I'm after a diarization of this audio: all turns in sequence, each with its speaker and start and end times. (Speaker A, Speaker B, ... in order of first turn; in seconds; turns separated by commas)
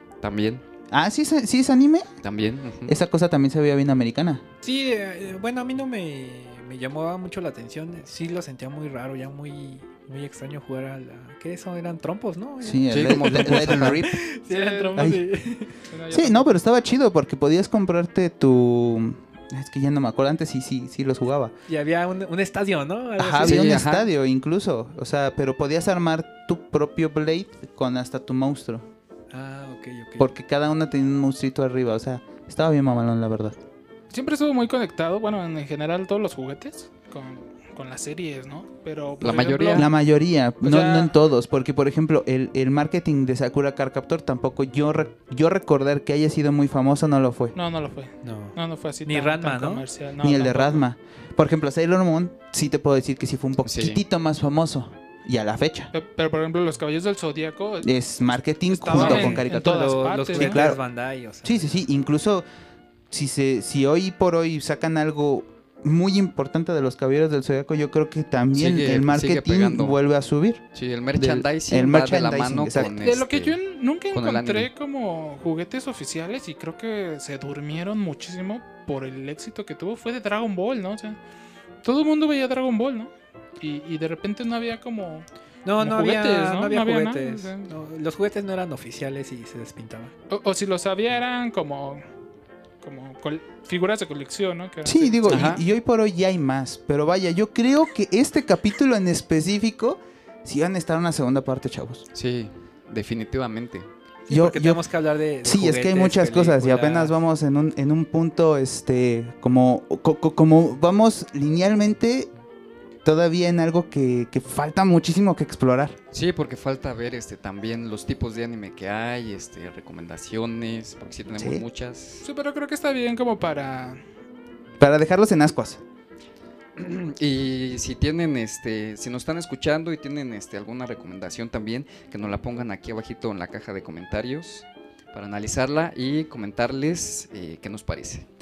Speaker A: 0.2-0.6, Speaker B: 0.9-2.1, Speaker A: 2.2-3.0, Speaker B: 2.9-4.4, Speaker C: 4.6-15.7, Speaker B: 12.6-14.2, Speaker A: 12.9-14.1, Speaker D: 14.5-15.2, Speaker D: 15.9-16.5, Speaker B: 16.1-21.5, Speaker C: 21.7-23.8, Speaker B: 23.2-28.9, Speaker A: 23.4-24.1, Speaker C: 29.3-30.3, Speaker B: 30.2-33.6, Speaker D: 34.1-39.9, Speaker A: 39.2-39.9, Speaker B: 39.7-47.5, Speaker D: 40.6-41.2, Speaker D: 47.5-50.9, Speaker C: 48.2-49.9, Speaker B: 50.2-55.9, Speaker A: 53.6-54.0, Speaker D: 55.9-57.9, Speaker B: 57.8-60.8, Speaker D: 58.7-60.7, Speaker C: 58.9-61.8, Speaker B: 61.4-62.5, Speaker B: 63.1-70.6, Speaker A: 68.5-70.0, Speaker A: 70.7-73.6, Speaker B: 71.2-73.1, Speaker D: 73.0-81.2, Speaker A: 74.1-74.7, Speaker D: 81.8-85.2, Speaker C: 85.7-90.1, Speaker D: 85.8-87.7, Speaker D: 90.3-92.0, Speaker D: 92.8-95.6, Speaker B: 94.8-102.0, Speaker A: 95.3-95.6, Speaker A: 102.1-103.9, Speaker C: 104.3-107.2, Speaker B: 104.3-104.8, Speaker B: 105.4-112.3, Speaker B: 113.0-116.0, Speaker A: 116.1-122.3, Speaker B: 121.4-121.6, Speaker D: 122.2-124.0, Speaker B: 124.8-125.8, Speaker A: 126.8-138.3